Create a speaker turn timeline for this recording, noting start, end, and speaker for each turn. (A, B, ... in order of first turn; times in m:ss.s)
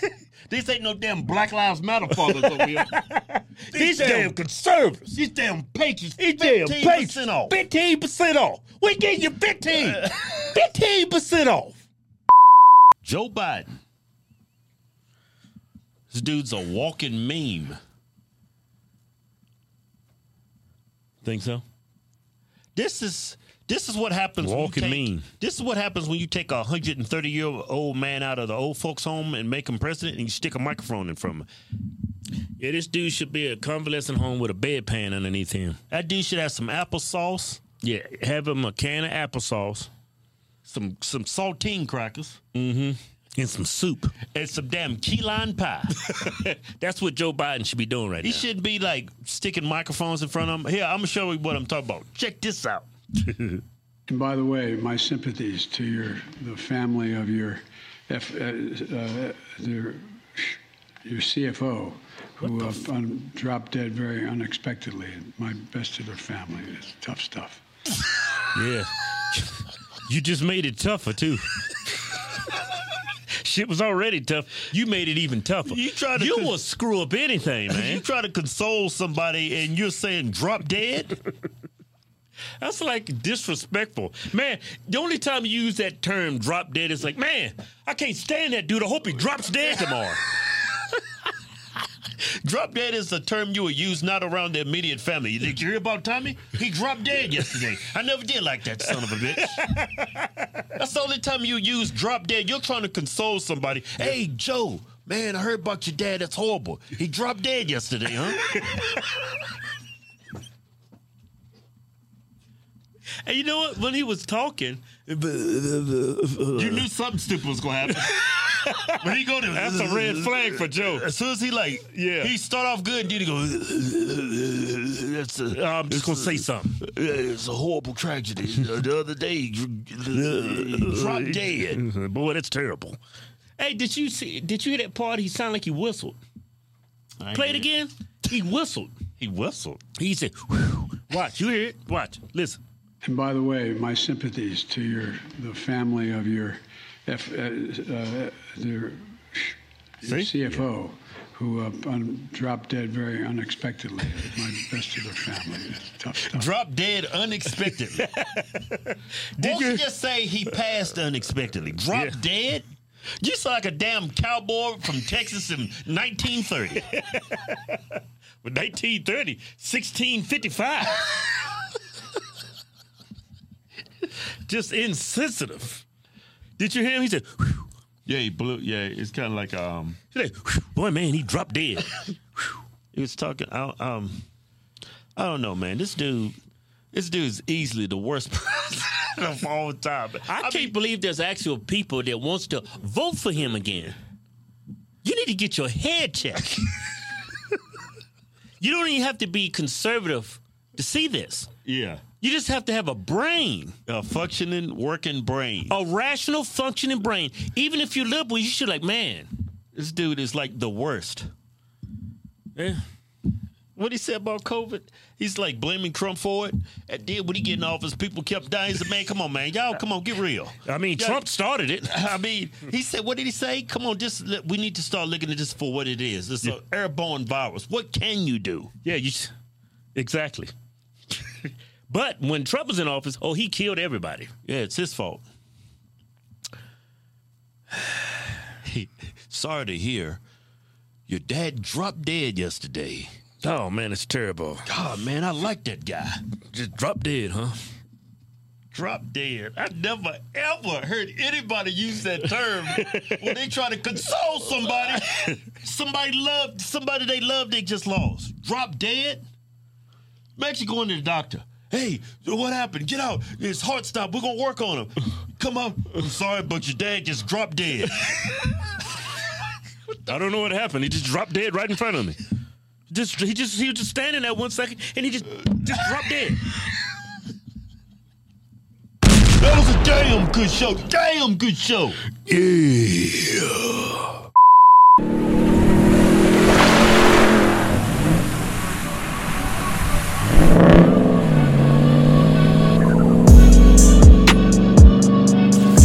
0:00.5-0:03.0 A
0:02.1-0:05.1 B
0:03.7-0:04.4 A
0:05.1-0:07.6 A
0:06.2-0:11.8 B
0:09.7-0:10.1 A
0:13.0-0:13.7 A
0:16.1-0:17.8 A
0:21.2-0:21.6 B
0:22.8-0:31.5 A
0:24.4-0:25.3 B
0:32.6-0:35.8 B
0:35.9-0:37.7 A
0:37.8-0:39.9 B
0:40.7-0:42.4 A
0:42.6-0:44.1 B
0:44.2-0:45.9 A
0:46.0-0:48.5 B
0:48.2-0:52.9 A
0:53.2-0:53.6 B
0:54.1-1:07.6 C
1:02.4-1:02.8 B
1:08.5-1:11.5 B
1:13.4-1:18.0 B
1:15.6-1:16.6 A
1:17.7-1:21.2 A
1:22.6-1:30.2 B
1:32.2-1:39.6 A
1:39.0-1:40.5 B
1:40.8-1:48.9 A
1:48.5-1:49.1 B
1:53.2-1:56.9 B
1:56.6-2:11.8 A
1:58.0-2:01.1 B
2:01.8-2:02.3 B
2:05.5-2:06.8 B
2:10.1-2:13.0 B
2:13.6-2:16.2 B
2:17.2-2:17.7 A
2:17.3-2:22.6 B
2:23.0-2:36.5 C
2:30.1-2:30.6 A
2:36.3-2:38.1 A
2:37.5-2:39.8 B
2:39.4-2:42.7 A
2:41.9-2:42.2 B
2:43.2-2:46.9 A
2:46.9-2:47.8 B
2:48.4-2:51.3 B
2:54.4-2:55.8 B
2:56.6-2:57.7 B
2:58.1-3:00.0 A
3:00.1-3:02.4 B
3:02.9-3:04.2 A
3:05.2-3:06.4 A
3:06.9-3:10.7 A
3:10.2-3:14.0 B
3:15.0-3:16.5 B
3:18.6-3:21.5 B
3:21.6-3:22.1 A
3:22.2-3:23.8 B
3:23.8-3:25.8 A
3:25.7-3:29.3 B
3:29.7-3:31.3 A
3:32.6-3:32.8 B
3:33.8-3:41.3 A
3:40.7-3:42.0 B
3:41.8-3:48.7 A
3:48.8-3:49.3 B
3:50.0-3:50.5 B
3:51.9-3:54.4 B
3:54.4-3:55.2 A
3:58.6-4:00.2 A
4:01.1-4:03.1 A
4:03.4-4:04.7 B
4:04.7-4:06.2 A
4:06.5-4:07.6 B
4:08.7-4:19.2 A
4:12.7-4:13.3 B
4:20.4-4:28.5 A
4:30.0-4:32.2 B
4:32.9-4:36.4 B
4:39.4-4:42.0 A
4:42.3-4:43.8 B